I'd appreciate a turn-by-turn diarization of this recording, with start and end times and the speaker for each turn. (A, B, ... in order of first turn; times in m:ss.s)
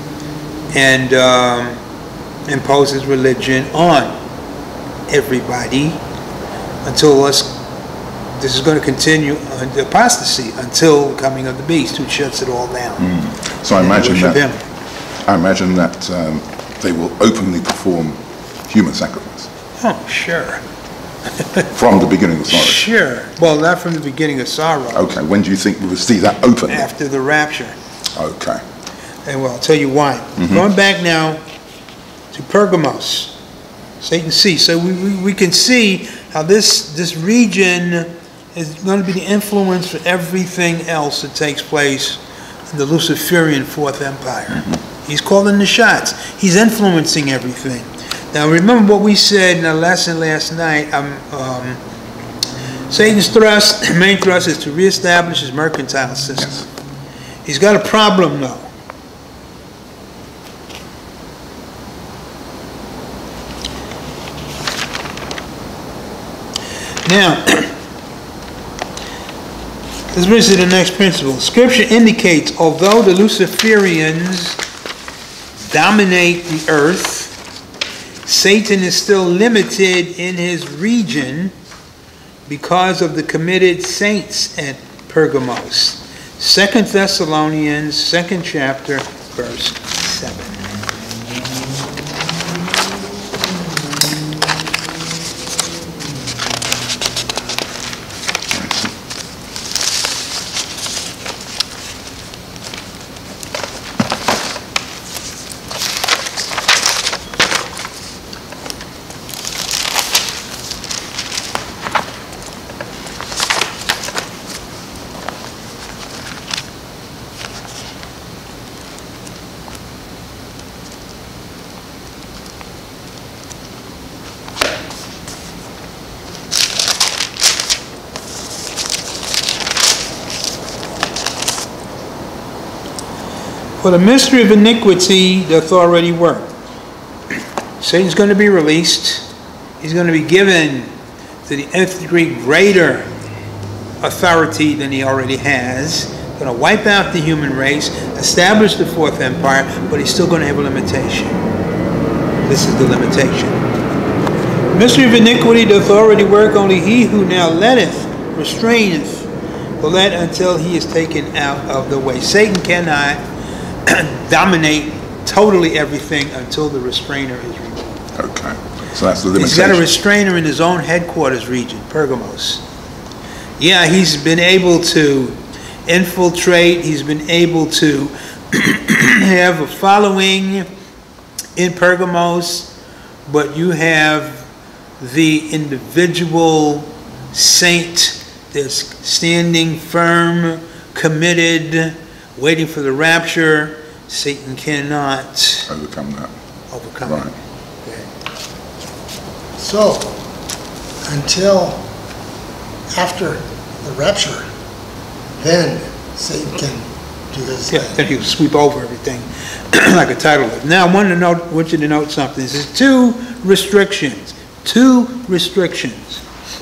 0:00.7-0:01.8 A
0:02.5-0:04.2 A
0:05.1-0:06.0 A
0:06.8-0:07.6 A
0:08.4-0:13.1 A
0:13.0-0:14.4 B
0:13.8-0:14.6 A
0:15.3-0:19.5 B
0:19.8-0:20.6 A
0:21.4-0:21.6 A
0:21.7-0:22.9 B
0:22.5-0:25.1 A
0:24.9-0:26.9 B
0:26.7-0:27.8 A
0:28.1-0:28.6 B
0:29.2-0:31.4 A
0:30.4-0:30.6 B
0:32.3-0:33.4 A
0:34.0-0:51.8 A
0:52.9-0:56.6 A
0:57.4-0:58.7 A
1:07.0-1:07.8 A
1:10.1-1:14.6 A
1:15.6-1:17.4 A
1:18.2-1:21.5 A
1:22.5-1:30.6 A
1:38.5-1:38.9 B
2:13.8-2:16.6 A
2:17.8-2:19.3 A
2:19.8-2:20.9 A
2:21.5-2:23.1 A
2:24.0-2:31.4 A
2:32.5-2:33.6 A
2:34.7-2:39.3 A
2:39.8-2:43.2 A
2:43.8-2:48.1 A
2:48.1-2:49.8 B
2:49.4-2:52.6 A
2:53.6-3:00.7 A
3:01.6-3:02.7 A
3:03.3-3:04.5 A
3:05.0-3:15.7 A
3:15.7-3:16.3 B
3:16.7-3:17.3 A
3:17.0-3:17.3 B
3:19.6-3:20.2 C
3:21.0-3:21.9 C
3:22.9-3:24.4 C
3:25.4-3:27.9 C
3:27.7-3:36.2 A